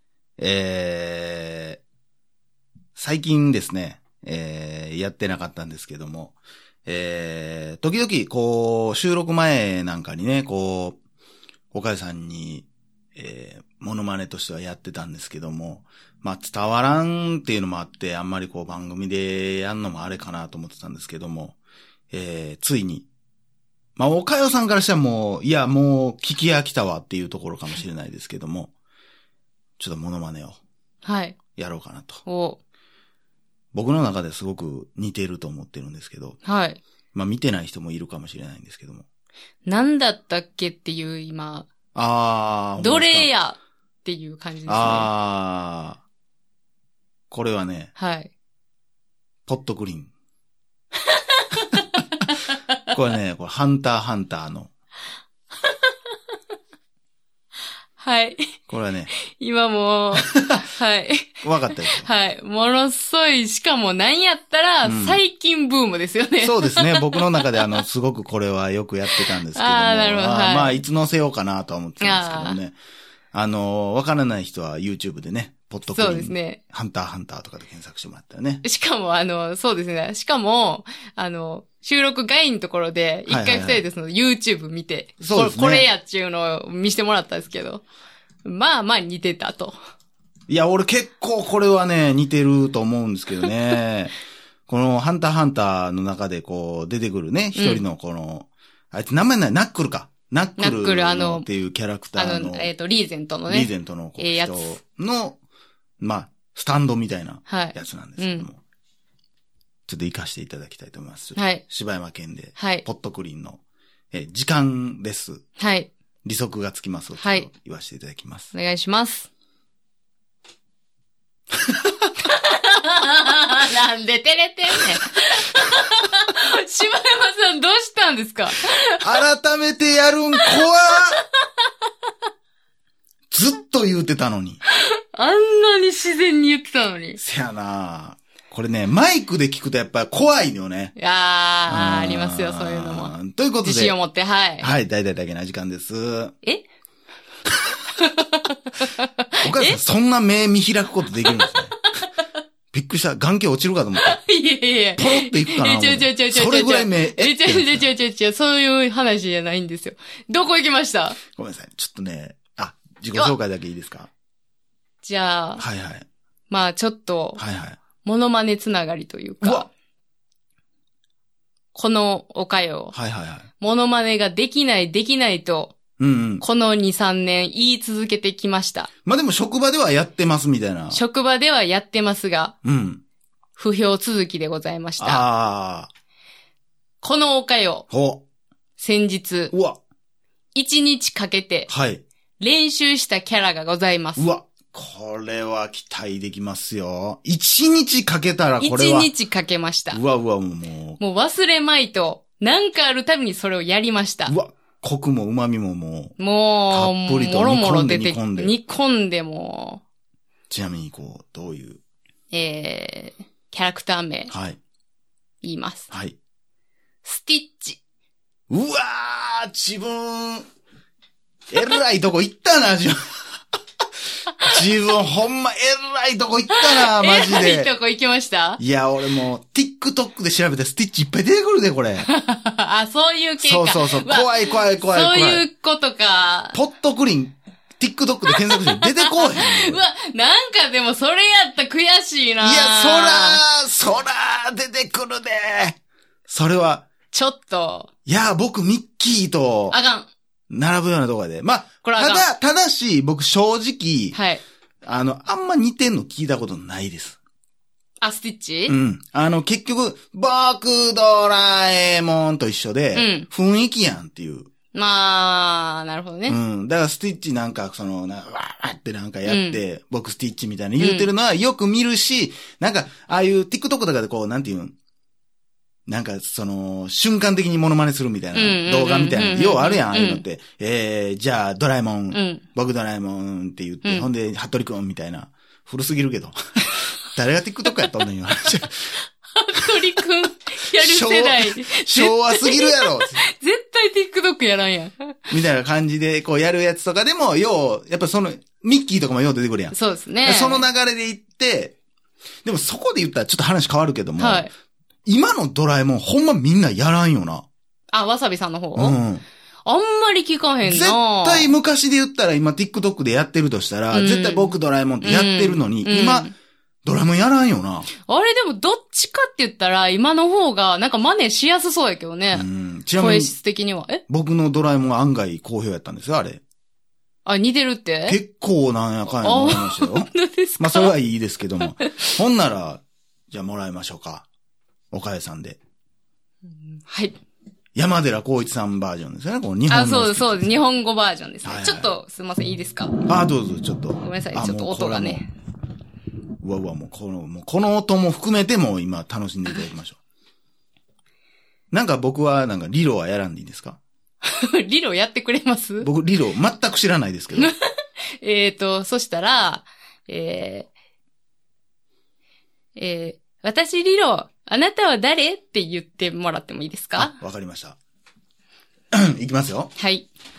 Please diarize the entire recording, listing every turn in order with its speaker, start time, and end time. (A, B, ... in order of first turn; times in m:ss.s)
0:00.4-0:01.8 A
0:03.0-0:11.0 A
0:11.7-0:21.6 A
0:22.1-0:23.1 A
0:24.0-0:28.7 A
0:29.8-0:30.6 A
0:31.0-0:31.4 B
0:31.5-0:32.2 A
0:32.2-0:32.6 B
0:33.7-0:36.4 A
0:36.4-0:36.8 B
0:37.1-0:39.0 A
0:39.7-0:41.7 B
0:42.0-0:43.3 A
0:42.8-0:45.1 B
0:44.7-0:46.0 A
0:47.3-0:47.9 A
0:48.0-0:48.3 B
0:49.5-0:50.1 A
0:51.3-0:52.0 B
0:52.9-0:54.7 A
0:58.0-0:58.5 B
0:58.7-0:59.1 A
0:59.1-1:01.4 B
1:01.4-1:02.1 A
1:02.0-1:07.8 B
1:04.8-1:05.2 A
1:06.4-1:12.8 A
1:09.2-1:10.8 B
1:12.0-1:12.6 B
1:13.3-1:18.6 A
1:15.9-1:16.6 B
1:18.6-1:27.8 B
1:23.3-1:23.8 A
1:25.2-1:25.9 A
1:28.4-1:29.8 B
1:30.5-1:34.1 A
1:34.7-1:42.7 A
1:37.6-1:37.8 B
1:40.6-1:41.5 B
1:42.2-1:44.8 B
1:43.5-1:45.4 A
1:46.0-1:48.6 A
1:47.5-1:48.5 B
1:49.9-1:53.6 A
1:51.4-1:51.6 B
1:52.6-1:52.8 B
1:54.1-1:55.4 A
1:55.6-1:55.9 B
1:56.2-1:58.5 A
1:57.2-1:57.5 B
1:58.5-1:59.3 B
2:02.2-2:09.2 B
2:09.0-2:11.2 A
2:10.4-2:11.3 B
2:13.3-2:14.6 A
2:14.7-2:17.2 B
2:17.2-2:20.9 A
2:21.0-2:24.7 B
2:21.7-2:24.0 A
2:24.6-2:26.3 A
2:28.0-2:29.8 B
2:29.4-2:31.8 A
2:31.2-2:32.0 B
2:32.7-2:34.2 A
2:34.0-2:41.2 B
2:35.0-2:37.8 A
2:41.3-2:44.1 A
2:45.0-2:45.6 B
2:45.6-2:46.0 A
2:46.5-2:47.4 B
2:47.4-2:47.8 A
2:48.0-2:49.7 B
2:49.4-2:49.7 A
2:51.7-2:52.9 B
2:52.9-2:53.5 A
2:53.6-2:55.8 B
2:56.0-2:56.4 A
2:56.4-2:58.9 B
2:59.0-3:01.0 A
3:00.9-3:02.5 B
3:02.6-3:03.0 A
3:03.6-3:05.2 B
3:05.0-3:05.9 A
3:07.0-3:07.8 B
3:07.9-3:08.2 A
3:08.8-3:09.5 B
3:09.5-3:09.8 A
3:10.5-3:11.7 B
3:11.7-3:12.0 A
3:12.4-3:14.3 B
3:14.2-3:19.1 A
3:18.6-3:20.0 B
3:19.9-3:21.0 A
3:21.0-3:24.3 B
3:24.2-3:26.2 A
3:26.2-3:29.8 B
3:26.7-3:28.5 A
3:30.5-3:31.8 A
3:32.3-3:34.3 B
3:34.3-3:34.6 A
3:35.4-3:35.9 B
3:35.9-3:36.2 A
3:37.0-3:37.8 B
3:38.5-3:40.5 A
3:41.5-3:43.4 A
3:44.4-3:47.7 A
3:46.6-3:48.6 B
3:48.6-3:52.1 A
3:52.0-3:56.6 B
3:53.4-3:55.4 A
3:56.5-3:59.8 A
3:58.7-4:03.4 B
4:02.4-4:05.8 A
4:06.3-4:06.8 A
4:07.1-4:07.9 B
4:08.1-4:09.8 A
4:09.7-4:10.1 B
4:10.5-4:14.2 A
4:11.8-4:12.3 B
4:14.1-4:14.4 B
4:14.8-4:17.2 A
4:18.0-4:18.8 B
4:18.7-4:24.5 A
4:23.0-4:23.3 B
4:24.7-4:26.4 B
4:26.3-4:34.7 A
4:29.2-4:29.6 B
4:30.8-4:31.1 B
4:35.9-4:48.9 A
4:38.3-4:40.2 B
4:42.1-4:42.4 B
4:49.3-4:55.2 B
4:50.8-4:53.2 A
4:55.3-5:01.8 A
4:59.7-5:00.6 B
5:02.4-5:04.5 A
5:04.2-5:04.5 B
5:05.1-5:07.4 A
5:07.9-5:09.0 B
5:08.8-5:09.2 A
5:09.6-5:11.5 B
5:10.6-5:16.3 A
5:13.9-5:16.3 B
5:16.8-5:17.9 A
5:18.1-5:22.5 B
5:22.3-5:23.4 A
5:23.0-5:24.0 B
5:24.1-5:26.4 A
5:27.2-5:28.2 B
5:28.1-5:34.3 A
5:29.2-5:30.9 B
5:31.6-5:31.9 B
5:34.9-5:35.6 A
5:36.7-5:37.2 B
5:37.8-5:40.5 A
5:39.7-5:43.0 B
5:41.4-5:41.9 A
5:43.0-5:45.2 A
5:44.0-5:45.3 B
5:46.4-5:50.0 A
5:51.7-5:53.8 A
5:54.2-5:55.9 B
5:55.8-5:57.5 A
5:57.3-5:57.6 B
5:58.2-6:00.7 B
6:02.8-6:07.1 B
6:07.0-6:07.8 A
6:08.9-6:09.7 A
6:09.8-6:10.1 B